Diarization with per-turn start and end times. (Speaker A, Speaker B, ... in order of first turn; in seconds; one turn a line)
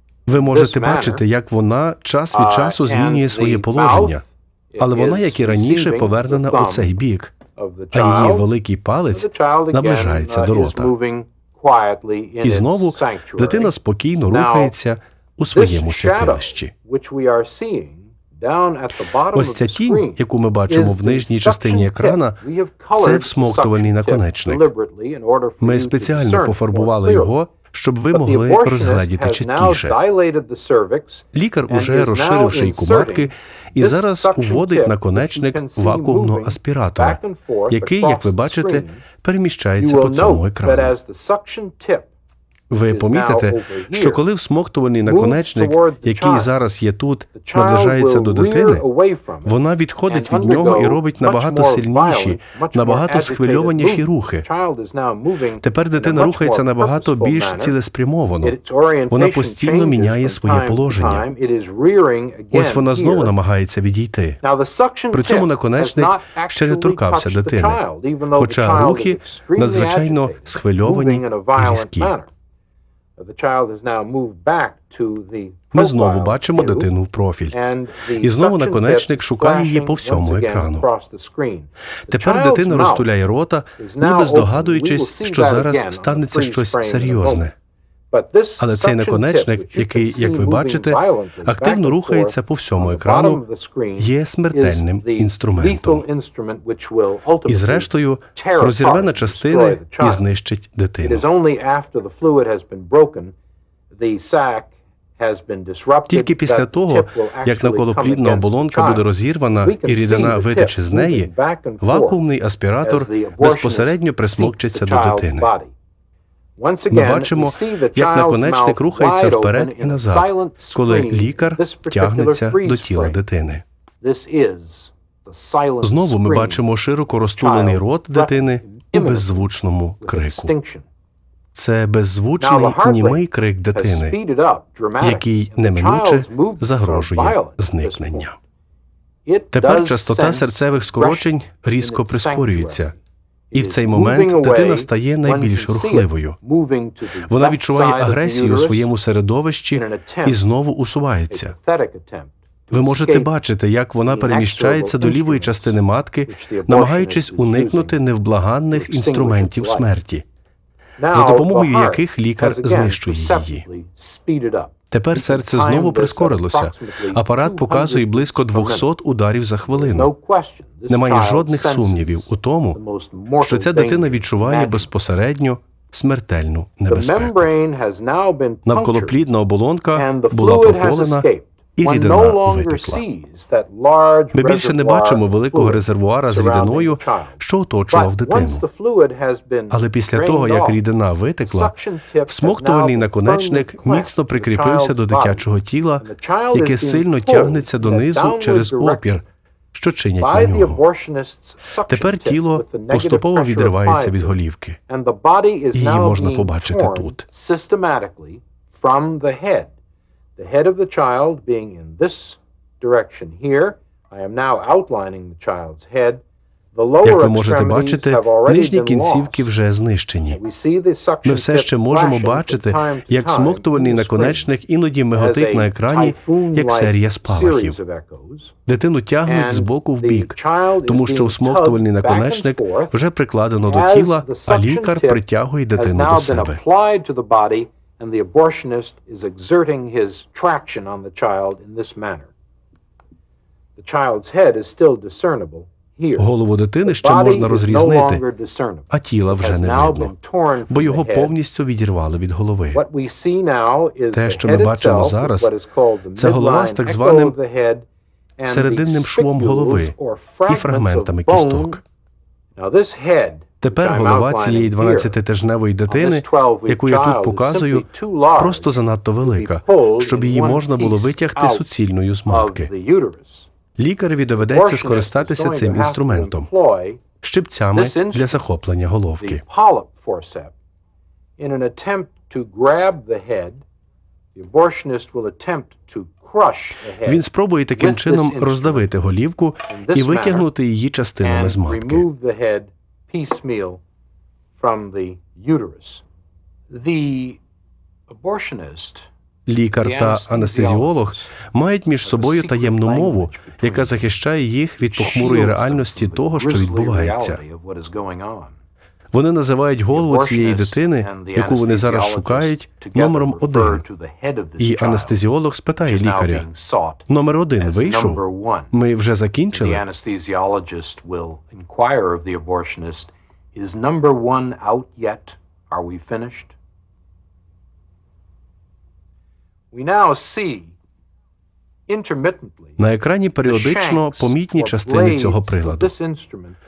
Speaker A: 0.3-4.2
Speaker B: 0.4-1.2
Speaker B: 2.3-7.0
Speaker A: 4.8-7.4
Speaker B: 7.5-8.5
Speaker A: 7.9-10.9
Speaker B: 9.1-13.7
Speaker A: 12.4-16.7
Speaker B: 14.3-14.8
Speaker B: 15.5-27.4
Speaker A: 19.3-22.4
Speaker A: 23.0-24.7
Speaker A: 25.6-30.0
Speaker B: 28.1-39.0
Speaker A: 31.3-41.0
Speaker B: 39.8-42.1
Speaker A: 42.7-48.8
Speaker B: 42.9-44.2
Speaker B: 45.0-46.5
Speaker B: 47.4-57.8
Speaker A: 49.5-54.5
Speaker A: 55.6-58.6
Speaker B: 58.4-63.4
Speaker A: 59.1-61.3
Speaker A: 62.5-64.4
Speaker B: 64.4-72.3
Speaker A: 65.1-67.8
Speaker A: 68.3-72.1
Speaker B: 73.2-76.9
Speaker A: 75.7-77.6
Speaker B: 77.5-83.1
Speaker A: 78.2-80.9
Speaker A: 82.1-87.5
Speaker B: 83.8-87.5
Speaker B: 88.1-100.2
Speaker A: 88.6-93.4
Speaker A: 94.0-96.0
Speaker A: 97.5-101.2
Speaker B: 101.0-103.3
Speaker B: 103.9-109.1
Speaker A: 106.1-115.5
Speaker B: 109.6-112.2
Speaker B: 112.8-115.7
Speaker B: 116.6-123.2
Speaker A: 116.9-123.6
Speaker B: 124.0-126.6
Speaker A: 125.8-130.5
Speaker B: 127.4-129.5
Speaker B: 130.0-130.9
Speaker A: 131.6-134.2
Speaker B: 132.4-138.3
Speaker A: 135.0-138.4
Speaker B: 139.2-142.9
Speaker A: 139.5-142.9
Speaker B: 143.5-148.9
Speaker A: 143.5-146.4
Speaker A: 147.3-151.6
Speaker B: 149.7-150.4
Speaker B: 151.3-153.3
Speaker A: 152.7-160.2
Speaker B: 154.1-158.0
Speaker B: 158.7-159.9
Speaker B: 161.0-168.9
Speaker A: 161.1-163.7
Speaker A: 164.9-170.1
Speaker B: 169.7-174.9
Speaker A: 170.9-172.8
Speaker A: 173.4-177.5
Speaker B: 176.9-179.2
Speaker A: 178.7-183.0
Speaker B: 179.9-190.8
Speaker A: 184.3-188.7
Speaker A: 189.7-191.7
Speaker B: 191.4-195.5
Speaker A: 192.3-200.8
Speaker B: 196.0-199.1
Speaker B: 200.2-204.4
Speaker A: 201.9-204.8
Speaker B: 204.9-209.7
Speaker A: 205.7-207.2
Speaker B: 210.4-219.5
Speaker A: 217.0-220.4
Speaker B: 220.3-224.5
Speaker A: 221.2-227.8
Speaker B: 225.1-228.6
Speaker A: 228.7-236.6
Speaker B: 229.2-233.0
Speaker B: 233.7-242.3
Speaker B: 243.8-246.3
Speaker A: 246.2-248.2
Speaker B: 246.8-251.3
Speaker A: 248.9-250.1
Speaker A: 250.7-252.8
Speaker B: 252.7-257.9
Speaker A: 254.1-255.5
Speaker A: 256.2-257.4
Speaker B: 258.4-261.8
Speaker A: 258.5-259.9
Speaker A: 260.5-261.8
Speaker B: 262.6-265.2
Speaker A: 263.6-267.9
Speaker B: 265.9-271.7
Speaker A: 268.4-272.7
Speaker B: 272.3-273.5
Speaker A: 273.8-276.5
Speaker B: 274.4-277.0
Speaker A: 277.2-279.4
Speaker B: 277.8-278.5
Speaker B: 279.2-280.6
Speaker B: 281.4-283.6
Speaker B: 284.4-288.9
Speaker A: 287.0-292.1
Speaker B: 289.7-290.5
Speaker B: 291.2-293.8
Speaker B: 294.6-296.0
Speaker B: 296.7-297.4
Speaker B: 298.1-299.1
Speaker A: 299.5-307.4
Speaker B: 299.8-301.3
Speaker B: 302.0-304.1
Speaker B: 304.8-308.6
Speaker A: 309.1-313.8
Speaker B: 309.9-315.2
Speaker A: 314.6-316.5
Speaker B: 315.8-318.7
Speaker A: 317.1-319.8
Speaker B: 319.5-326.6
Speaker B: 329.7-330.8
Speaker B: 331.9-332.8
Speaker A: 332.8-335.9
Speaker B: 333.5-336.6